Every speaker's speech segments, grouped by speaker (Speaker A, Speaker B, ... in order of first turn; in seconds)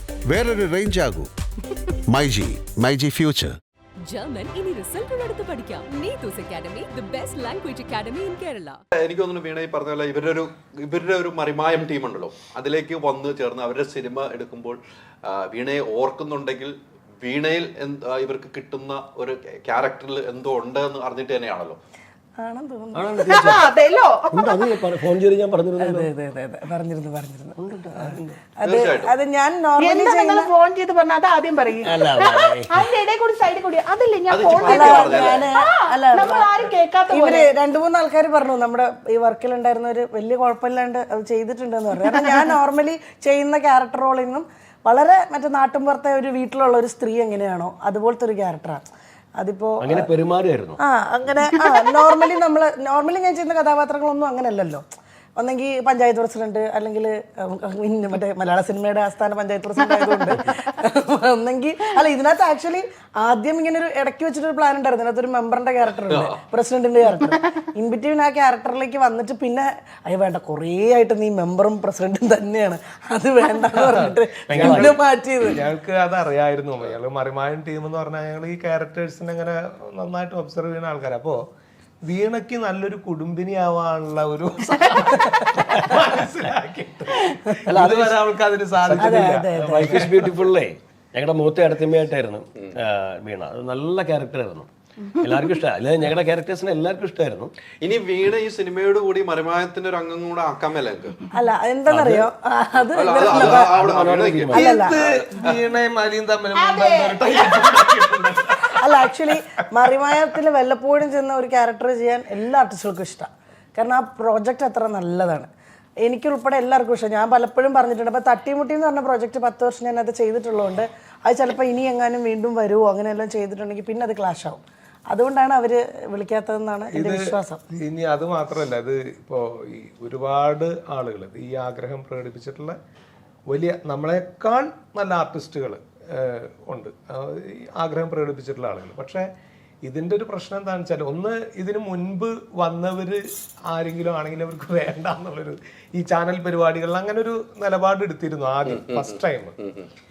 Speaker A: 0.2-1.3, 2.1-3.6
Speaker B: 4.1-8.8
Speaker C: 9.0-21.8, 28.6-29.1, 34.3-35.5, 97.8-101.2, 102.9-105.5, 148.7-149.9
Speaker D: 22.4-23.5, 25.8-30.5, 34.6-36.5, 37.1-48.8, 49.4-50.1, 50.8-54.8, 55.4-75.6, 89.0-90.0, 101.3-103.7, 104.5-104.9, 108.8-115.5, 116.0-127.6
Speaker E: 22.9-23.6, 24.3-26.1, 27.6-28.2, 31.8-32.8, 49.8-50.8, 74.5-75.0, 87.7-88.2, 88.8-97.5, 101.9-102.3, 103.3-104.8
Speaker F: 23.2-24.7, 29.8-37.5, 106.5-107.9
Speaker G: 73.7-81.4, 82.0-90.3, 104.5-108.8, 126.9-132.8, 133.5-139.3, 139.8-149.5